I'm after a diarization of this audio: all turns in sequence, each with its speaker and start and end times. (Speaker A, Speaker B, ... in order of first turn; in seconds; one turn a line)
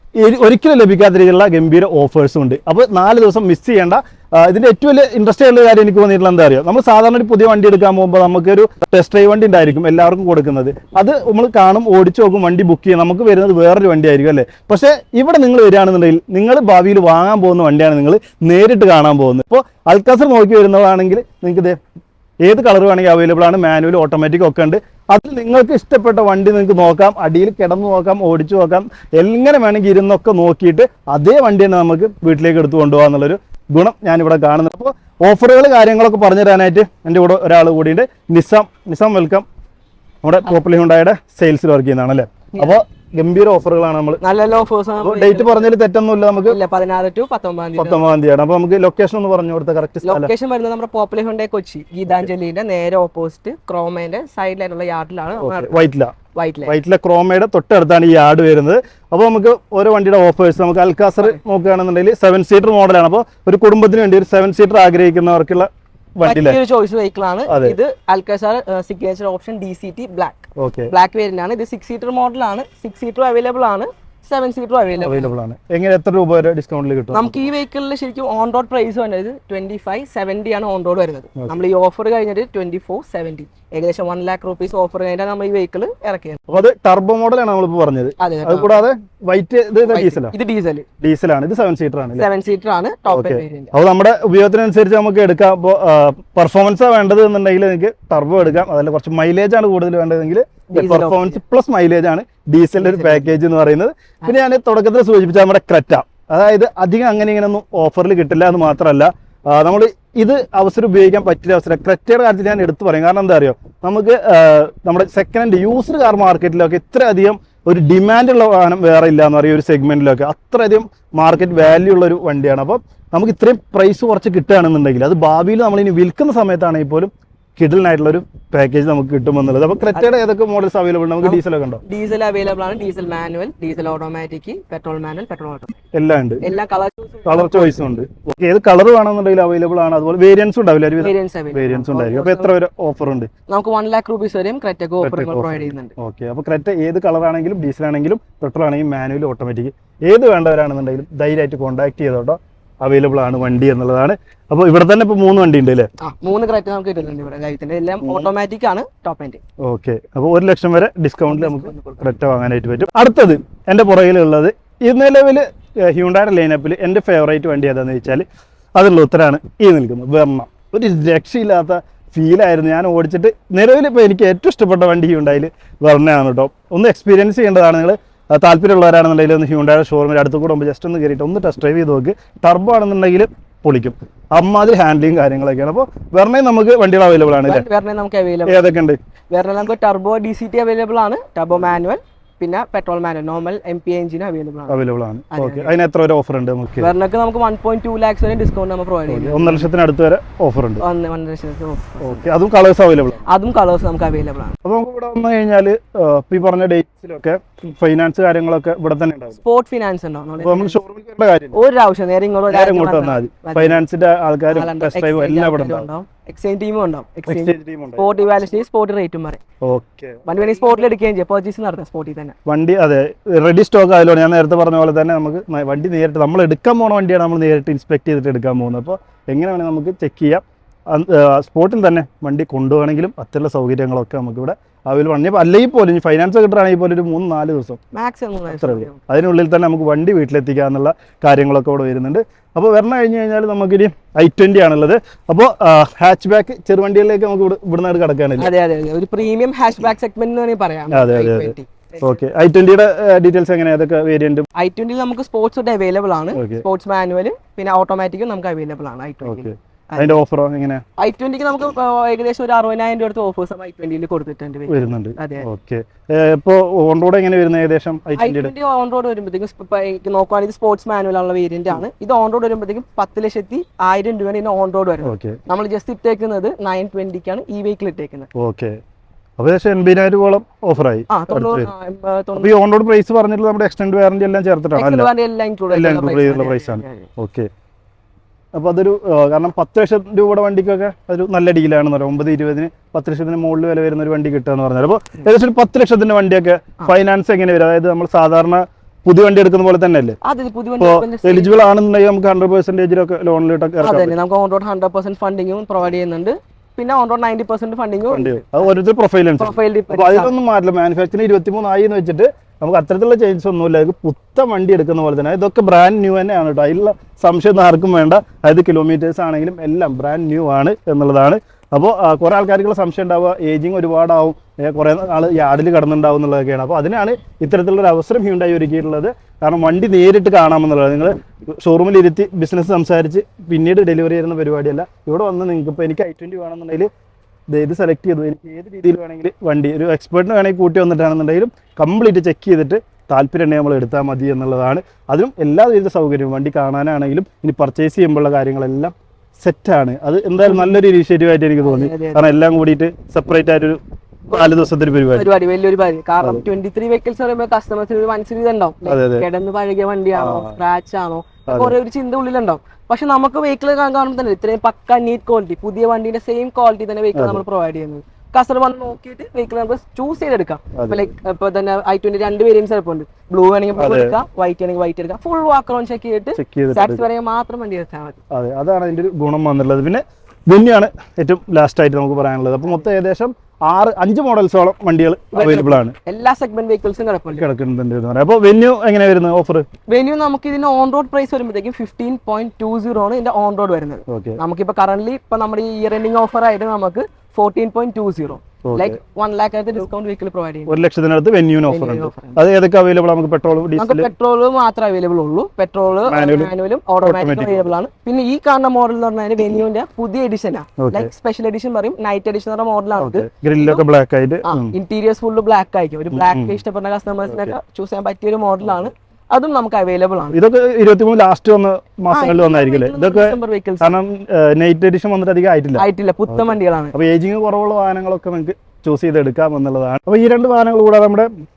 Speaker A: 0.2-21.8
Speaker A: 22.4-39.4
Speaker A: 40.2-44.2
Speaker B: 44.2-45.7
Speaker A: 45.0-46.6
Speaker B: 46.4-48.1
Speaker A: 47.8-50.3
Speaker B: 50.0-56.7
Speaker A: 55.4-56.1
Speaker A: 56.6-66.6
Speaker B: 66.2-75.3
Speaker A: 67.5-67.8
Speaker A: 70.6-70.9
Speaker A: 75.0-77.5
Speaker B: 77.1-86.5
Speaker A: 86.5-90.3
Speaker B: 88.2-88.8
Speaker B: 89.9-90.9
Speaker A: 91.0-92.2
Speaker B: 92.2-93.7
Speaker A: 93.1-131.8
Speaker B: 100.7-101.4
Speaker B: 102.8-103.2
Speaker B: 131.2-135.8
Speaker A: 135.9-136.4
Speaker B: 136.4-137.8
Speaker A: 137.2-143.3
Speaker B: 141.0-142.5
Speaker B: 143.5-145.9
Speaker A: 145.0-155.9
Speaker B: 156.0-159.4
Speaker A: 158.0-158.3
Speaker A: 159.6-168.2
Speaker B: 161.3-162.0
Speaker A: 168.8-187.7
Speaker B: 187.4-188.6
Speaker A: 188.4-189.0
Speaker B: 189.3-194.8
Speaker A: 194.7-196.9
Speaker B: 195.3-195.7
Speaker B: 196.8-199.7
Speaker A: 199.1-200.8
Speaker B: 200.8-202.2
Speaker A: 202.0-203.2
Speaker B: 203.2-204.5
Speaker A: 204.6-209.4
Speaker B: 209.4-210.8
Speaker A: 210.4-211.5
Speaker B: 211.5-213.8
Speaker A: 212.5-215.9
Speaker B: 214.5-219.4
Speaker A: 217.3-218.1
Speaker A: 219.6-220.2
Speaker B: 220.2-222.3
Speaker A: 222.4-237.8
Speaker B: 237.9-239.0
Speaker A: 238.5-248.5
Speaker B: 248.4-252.1
Speaker A: 250.9-254.5
Speaker B: 254.6-260.2
Speaker A: 256.3-256.6
Speaker A: 259.2-260.8
Speaker B: 261.0-265.5
Speaker A: 264.7-268.5
Speaker B: 268.2-278.3
Speaker A: 275.0-275.4
Speaker A: 278.3-278.8
Speaker A: 279.4-281.7
Speaker B: 281.1-282.5
Speaker A: 282.4-285.1
Speaker B: 284.7-287.1
Speaker A: 285.7-287.5
Speaker A: 288.5-300.2
Speaker B: 300.2-301.7
Speaker A: 300.8-304.1
Speaker B: 303.8-308.6
Speaker A: 308.1-336.9
Speaker B: 309.4-310.3
Speaker A: 337.5-355.3
Speaker B: 350.4-350.7
Speaker B: 351.6-352.3
Speaker B: 355.1-378.2
Speaker A: 358.9-359.2
Speaker A: 360.1-360.6
Speaker A: 361.5-361.8
Speaker A: 367.1-367.4
Speaker A: 370.7-371.1
Speaker A: 373.8-374.1
Speaker A: 376.4-377.1
Speaker A: 378.3-385.9
Speaker B: 385.3-387.4
Speaker A: 387.3-389.6
Speaker B: 389.9-400.8
Speaker A: 394.1-394.4
Speaker A: 398.6-399.0
Speaker A: 400.7-404.1
Speaker B: 401.7-402.4
Speaker B: 403.8-413.8
Speaker A: 406.1-406.5
Speaker A: 407.0-407.6
Speaker A: 410.8-411.1
Speaker A: 413.0-414.7
Speaker B: 414.4-420.4
Speaker A: 416.1-416.6
Speaker A: 417.3-417.5
Speaker A: 420.3-431.3
Speaker B: 422.1-424.0
Speaker B: 425.8-426.9